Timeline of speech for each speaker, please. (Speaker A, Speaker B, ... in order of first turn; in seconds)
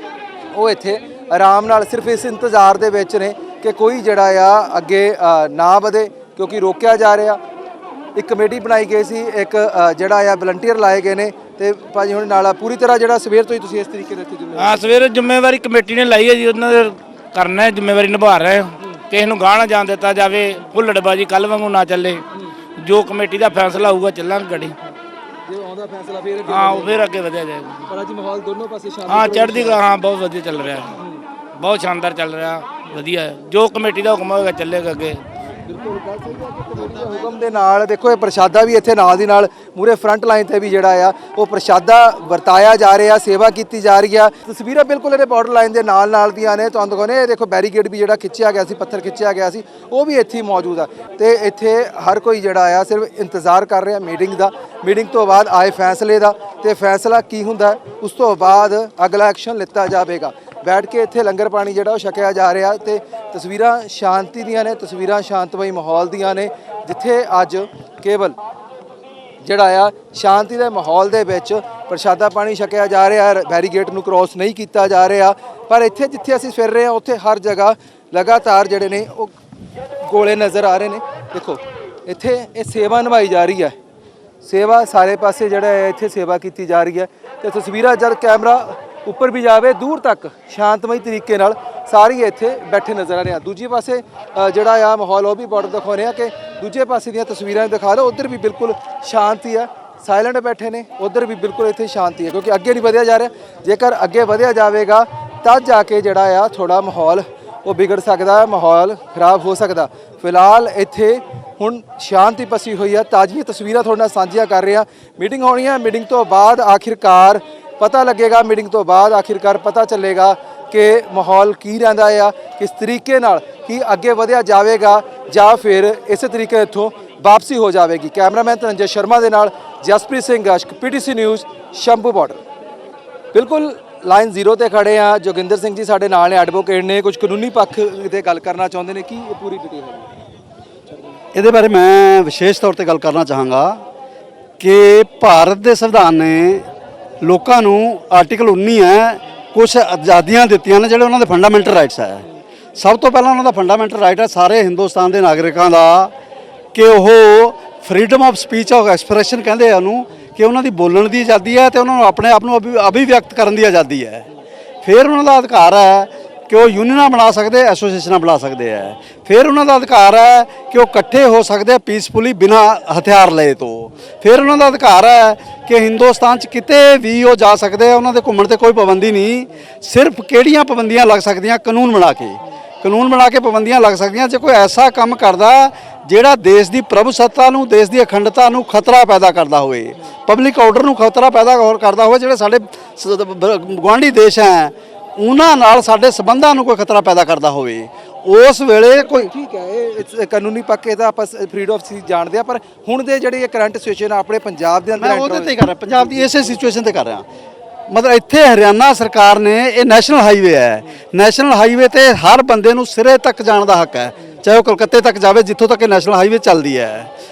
Speaker A: 0.5-7.4, 8.2-14.9, 25.4-27.1, 27.9-29.8, 30.9-31.2, 35.6-68.3, 69.4-79.3, 80.0-83.7, 84.4-132.4, 133.3-140.1, 198.9-206.6
Speaker B: 14.6-22.2, 22.8-24.7, 26.5-27.9, 29.1-31.0, 31.6-35.2
Speaker C: 141.3-143.8, 144.6-146.7, 147.2-152.2, 152.8-156.1, 156.7-164.2, 164.8-199.3, 204.9-207.2, 207.9-217.1